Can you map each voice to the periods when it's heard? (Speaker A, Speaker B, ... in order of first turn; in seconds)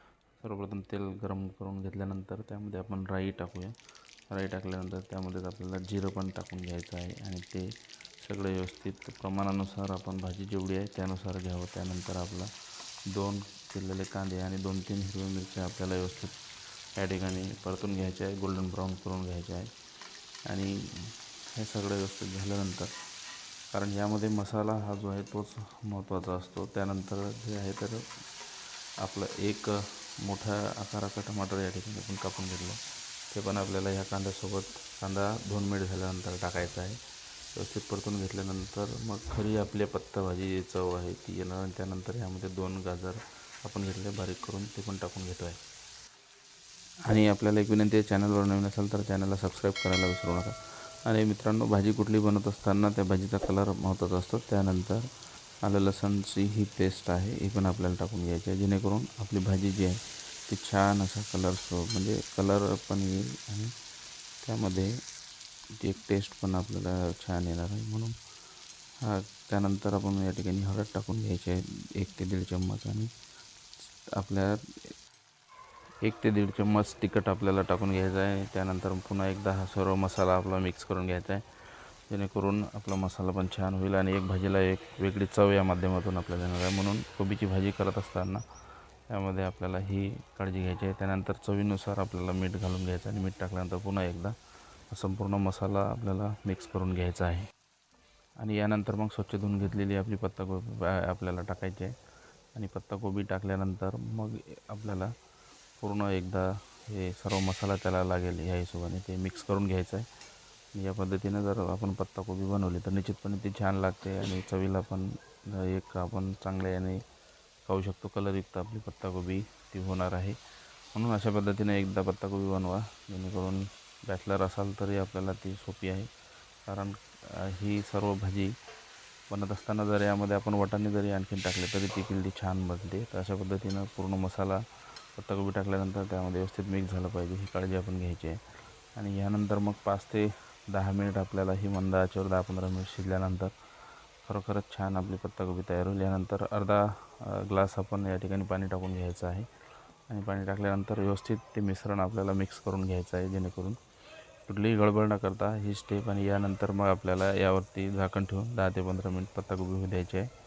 Speaker A: 0.4-3.7, 4.3-7.7, 8.2-12.5, 13.1-16.3, 17.0-19.7, 20.5-20.8, 21.6-22.9, 23.7-28.0, 29.0-32.8, 33.3-37.0, 37.5-45.6, 47.1-50.5, 51.1-55.0, 55.6-63.7, 64.4-64.9, 65.8-68.1, 69.0-73.1, 74.1-74.6, 76.0-81.4, 82.1-88.4, 89.1-94.3, 94.9-97.5, 98.4-101.9, 102.6-105.1, 105.8-110.1, 110.8-117.0, 117.7-120.4, 121.0-126.1, 126.7-128.5, 129.3-134.6, 135.2-138.4, 139.0-143.5, 144.3-149.5, 150.1-153.8, 154.5-160.3